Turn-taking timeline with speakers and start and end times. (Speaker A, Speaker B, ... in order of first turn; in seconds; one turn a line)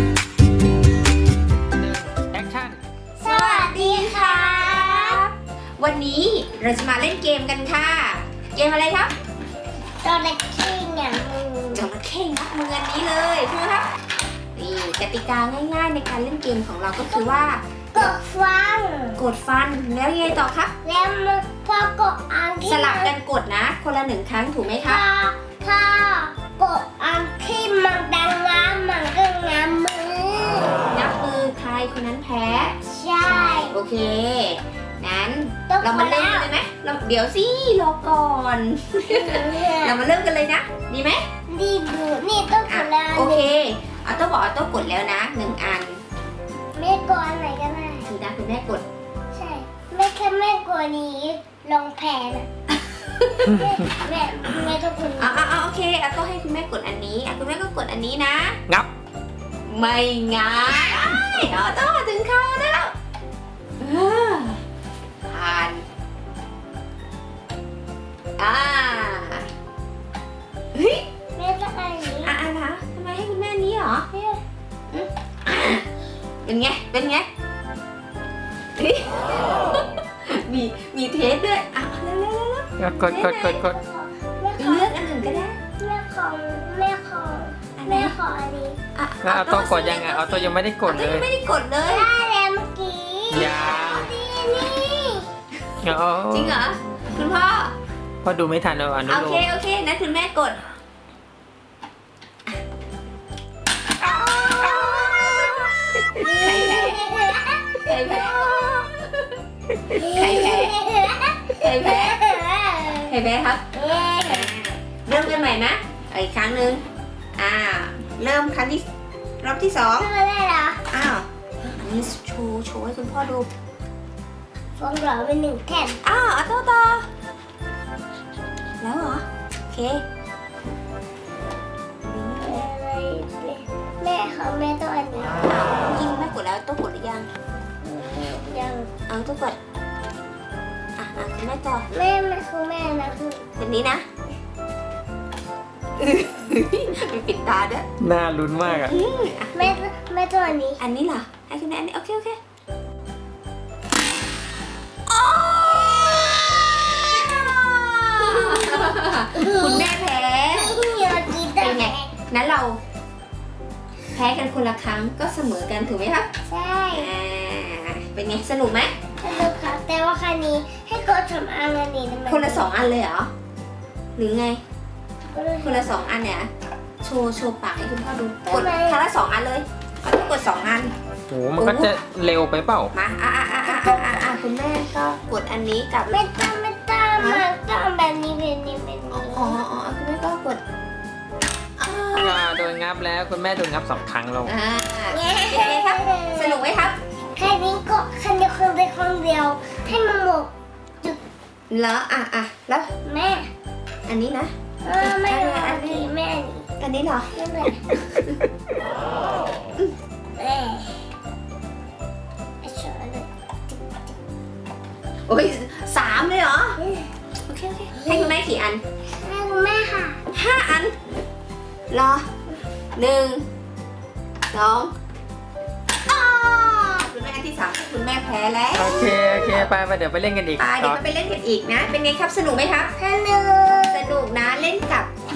Speaker A: 1.8-2.8
Speaker B: 3.2-5.2
Speaker C: 3.2-9.1
Speaker B: 10.0-11.9
Speaker C: 11.7-13.9
Speaker C: 14.6-18.1
Speaker B: 17.9-19.2
Speaker C: 19.2-20.7
Speaker B: 20.8-23.1
Speaker C: 22.6-25.0
Speaker B: 24.8-30.7
Speaker C: 30.9-41.2
Speaker B: 32.8-33.8
Speaker B: 35.7-36.5
Speaker B: 39.0-40.0
Speaker B: 41.5-43.5
Speaker C: 42.7-46.0
Speaker B: 46.7-48.1
Speaker C: 48.0-48.8
Speaker B: 49.3-52.5
Speaker C: 53.2-53.6
Speaker B: 53.4-55.4
Speaker C: 55.2-58.6
Speaker C: 59.7-62.9
Speaker B: 60.7-61.3
Speaker C: 63.8-64.6
Speaker C: 65.3-65.8
Speaker C: 68.4-69.5
Speaker C: 70.7-71.0
Speaker B: 71.3-72.4
Speaker C: 72.2-74.1
Speaker B: 74.1-74.4
Speaker C: 74.9-75.8
Speaker C: 76.4-77.3
Speaker C: 78.8-83.6
Speaker A: 82.8-83.8
Speaker B: 83.7-88.8
Speaker C: 84.6-85.6
Speaker C: 87.8-88.1
Speaker C: 88.9-92.1
Speaker A: 89.2-91.3
Speaker B: 91.9-95.3
Speaker A: 93.3-94.1
Speaker A: 95.8-96.6
Speaker C: 96.3-97.7
Speaker A: 98.2-99.4
Speaker C: 99.0-100.6
Speaker A: 104.0-106.0
Speaker C: 104.2-107.2
Speaker B: 104.3-105.4
Speaker B: 106.1-108.7
Speaker C: 107.8-109.3
Speaker B: 109.9-113.1
Speaker C: 110.0-110.8
Speaker C: 111.6-112.2
Speaker C: 113.1-113.6
Speaker B: 113.7-114.5
Speaker C: 114.2-116.8
Speaker C: 117.3-118.8
Speaker C: 119.4-120.1
Speaker B: 120.0-120.8
Speaker C: 120.9-123.5
Speaker B: 124.8-126.0
Speaker C: 126.0-127.1
Speaker C: 128.8-130.0
Speaker C: 132.0-132.7
Speaker B: 132.4-135.4
Speaker C: 135.4-137.3
Speaker B: 137.8-138.9
Speaker C: 139.1-139.6
Speaker C: 141.0-141.8
Speaker B: 141.9-143.5
Speaker C: 143.6-144.0
Speaker C: 146.0-147.8
Speaker A: 148.0-148.9
Speaker C: 148.7-149.7
Speaker B: 149.5-150.8
Speaker C: 150.8-152.4
Speaker C: 155.1-162.8
Speaker B: 155.7-156.4
Speaker B: 157.0-157.6
Speaker B: 158.1-160.0
Speaker B: 160.5-162.1
Speaker C: 164.1-166.3
Speaker B: 166.5-167.1
Speaker C: 166.9-168.9
Speaker B: 169.2-172.7
Speaker C: 172.3-173.3
Speaker C: 174.2-174.6
Speaker B: 175.3-176.0
Speaker C: 175.6-176.5
Speaker C: 177.0-180.9
Speaker B: 178.5-179.0
Speaker A: 181.3-182.9
Speaker C: 181.6-181.9
Speaker C: 182.9-186.2
Speaker B: 183.6-184.4
Speaker B: 186.1-189.6
Speaker C: 187.2-187.4
Speaker C: 189.1-190.6
Speaker C: 191.8-192.4
Speaker A: 192.1-194.5
Speaker C: 194.4-197.0
Speaker B: 195.1-196.7
Speaker B: 197.3-200.5
Speaker C: 201.7-202.9
Speaker B: 203.0-203.5
Speaker C: 204.1-206.1
Speaker B: 204.8-206.7
Speaker C: 206.8-207.3
Speaker B: 207.3-207.8
Speaker C: 208.1-208.4
Speaker B: 210.3-211.1
Speaker B: 212.6-214.1
Speaker C: 215.3-216.8
Speaker B: 216.8-217.0
Speaker C: 217.4-218.8
Speaker B: 217.9-218.3
Speaker B: 219.2-220.2
Speaker C: 220.3-220.9
Speaker C: 221.9-222.3
Speaker C: 222.9-223.4
Speaker C: 224.5-224.9
Speaker C: 226.1-229.7
Speaker A: 228.7-231.0
Speaker C: 230.6-232.9
Speaker B: 232.9-234.1
Speaker C: 233.9-235.1